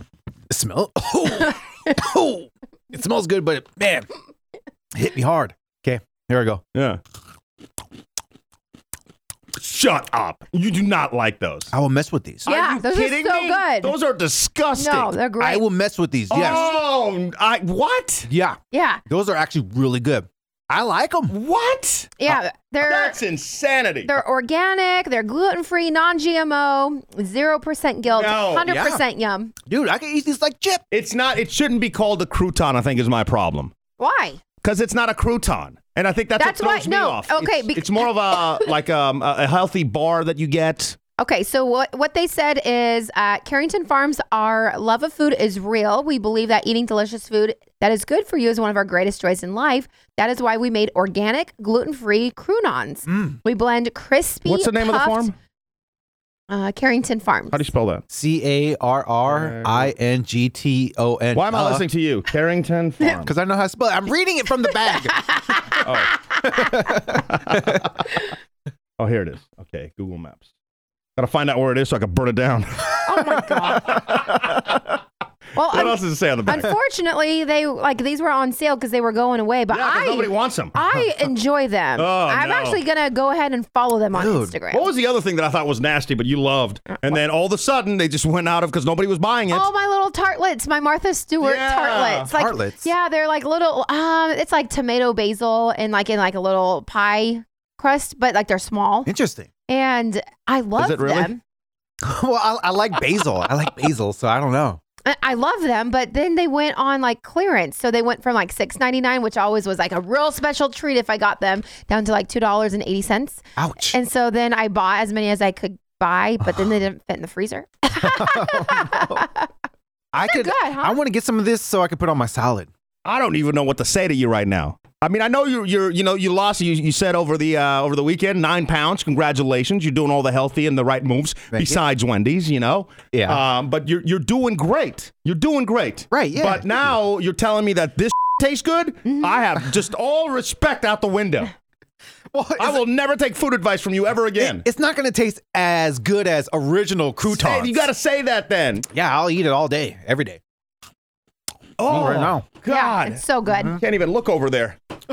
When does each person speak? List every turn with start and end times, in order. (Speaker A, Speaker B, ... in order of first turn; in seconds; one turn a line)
Speaker A: 0.5-4.1
Speaker A: 4.9-6.6
Speaker B: 6.7-7.0
Speaker B: 9.6-11.7
Speaker A: 11.7-12.5
Speaker B: 12.4-15.1
Speaker C: 12.5-13.9
Speaker C: 14.8-15.6
Speaker A: 15.4-16.7
Speaker B: 16.3-18.3
Speaker C: 16.3-16.8
Speaker A: 18.3-21.3
Speaker C: 18.7-19.0
Speaker B: 21.3-22.2
Speaker C: 22.2-23.2
Speaker B: 22.8-24.1
Speaker C: 24.1-29.5
Speaker B: 28.1-28.7
Speaker A: 28.6-29.0
Speaker A: 29.6-30.8
Speaker B: 30.9-33.7
Speaker C: 34.0-34.4
Speaker B: 34.6-41.0
Speaker C: 36.4-38.5
Speaker C: 41.2-55.3
Speaker A: 53.1-53.4
Speaker B: 54.5-55.3
Speaker C: 56.5-57.6
Speaker B: 57.5-58.0
Speaker A: 58.1-61.8
Speaker B: 59.2-59.9
Speaker B: 61.3-63.3
Speaker A: 63.1-65.2
Speaker B: 65.8-66.1
Speaker A: 66.4-67.8
Speaker B: 67.3-67.8
Speaker B: 69.0-70.5
Speaker B: 71.2-74.9
Speaker C: 73.0-74.0
Speaker C: 75.5-84.8
Speaker B: 75.7-76.7
Speaker B: 79.7-80.8
Speaker B: 82.0-82.8
Speaker A: 84.1-84.5
Speaker B: 84.7-89.7
Speaker C: 89.5-99.1
Speaker B: 91.4-92.3
Speaker A: 92.3-92.9
Speaker A: 99.0-99.5
Speaker C: 99.7-101.4
Speaker B: 100.8-101.3
Speaker A: 102.0-104.8
Speaker C: 105.0-119.5
Speaker A: 113.6-114.0
Speaker A: 116.4-116.7
Speaker A: 118.0-119.2
Speaker A: 120.1-122.7
Speaker C: 120.2-121.0
Speaker B: 123.0-141.5
Speaker A: 131.5-131.8
Speaker A: 133.1-133.4
Speaker A: 136.1-136.9
Speaker A: 142.3-142.8
Speaker B: 142.6-144.6
Speaker A: 144.3-147.9
Speaker B: 147.2-148.9
Speaker A: 148.9-150.4
Speaker B: 151.8-154.8
Speaker A: 151.8-152.4
Speaker C: 152.7-153.8
Speaker A: 153.5-153.8